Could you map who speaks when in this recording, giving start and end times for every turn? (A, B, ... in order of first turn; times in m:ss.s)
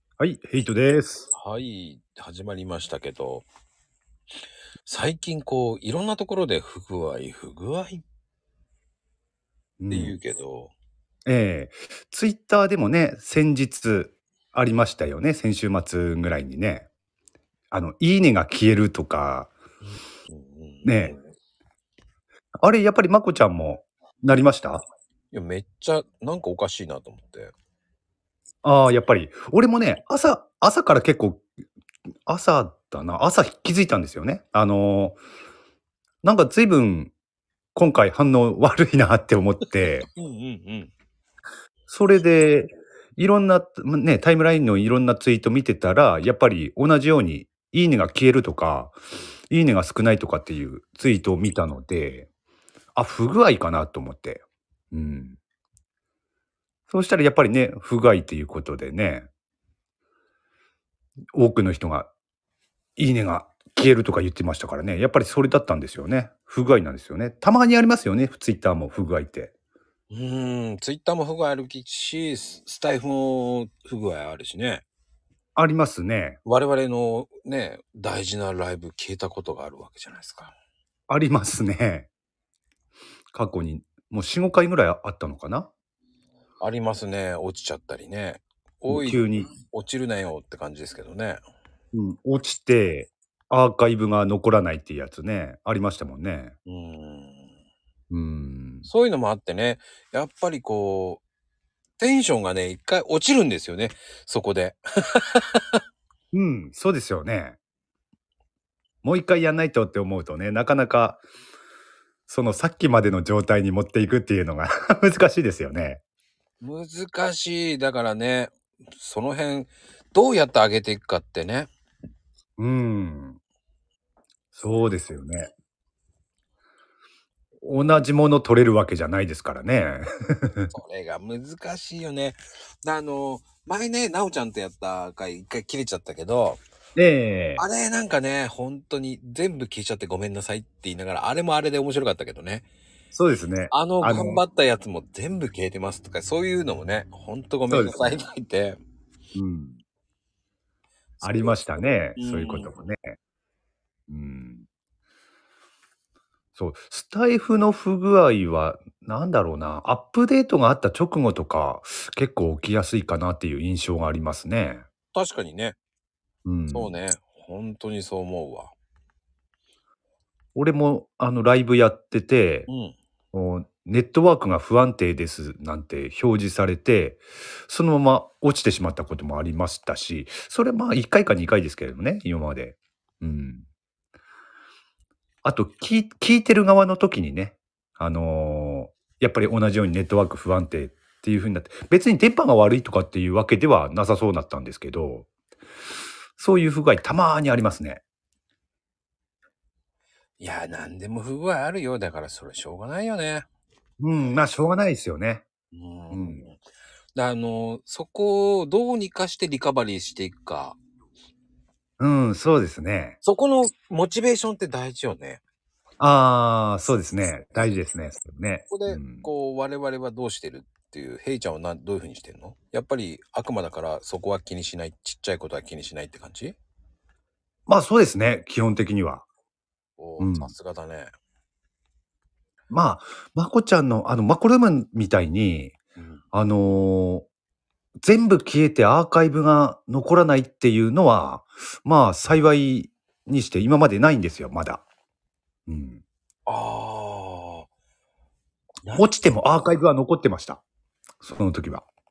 0:00.2-0:01.3 A
0:01.3-0:03.5 B
0:04.9-0:08.0 B
0:09.8-0:10.2 A
0:09.9-0:10.7 B
0:11.3-0:16.9 A
0:17.7-0:19.5 A
0:19.9-0:21.2 B
0:20.8-0:21.2 A
0:22.6-0:24.8 A
0:25.3-0:27.5 B
0:28.6-0:31.5 A
0:32.3-0:35.2 A
0:36.2-0:37.1 A
0:37.8-0:40.1 A
0:40.1-0:40.9 B
0:41.9-0:49.0 A
0:49.5-0:52.3 A
0:53.0-0:55.4 A
0:56.9-0:59.3 A
1:01.3-1:02.1 A
1:03.0-1:09.5 A
1:10.1-1:14.8 B
1:15.6-1:16.4 A
1:16.5-1:20.5 B
1:21.1-1:22.1 A
1:23.3-1:25.7 A
1:26.6-1:31.4 B
1:28.9-1:29.5 A
1:31.9-1:36.6 A
1:36.7-1:37.5 B
1:38.1-1:38.9 A
1:38.8-1:41.2 B
1:42.0-1:45.8 B
1:46.3-1:47.6 A
1:49.0-1:51.2 A
1:52.3-1:56.0 A
1:56.6-2:01.7 B
2:02.6-2:03.4 A
2:04.5-2:05.5 A
2:07.6-2:10.7 A
2:10.7-2:16.6 B
2:17.0-2:17.6 A
2:17.6-2:22.7 B
2:23.1-2:24.4 A
2:23.7-2:28.8 B
2:27.7-2:28.0 A
2:29.4-2:29.8 A
2:31.2-2:32.7 B
2:31.2-2:33.2 A
2:34.1-2:34.7 A
2:36.6-2:44.8 A
2:45.1-2:45.8 B
2:46.4-2:46.9 A
2:46.7-2:48.7 B
2:50.6-2:52.7 A
2:52.7-2:53.0 B
2:53.3-3:03.7 A
3:05.4-3:15.3 A
3:16.4-3:18.0 A
3:20.4-3:23.5 B
3:24.0-3:25.4 A
3:25.7-3:26.6 B
3:26.1-3:26.4 A
3:27.2-3:30.8 B
3:32.0-3:33.2 A
3:33.2-3:35.4 B
3:36.0-3:39.3 A
3:38.7-3:46.6 B
3:47.7-3:49.3 A
3:50.0-3:51.1 B
3:50.2-3:50.5 A
3:52.7-3:55.8 A
3:56.0-3:56.2 B
3:56.3-3:57.3 A
3:58.0-4:04.8 A
4:05.7-4:06.0 A
4:06.5-4:07.7 B
4:08.8-4:09.7 B
4:08.9-4:10.6 A
4:11.2-4:11.8 A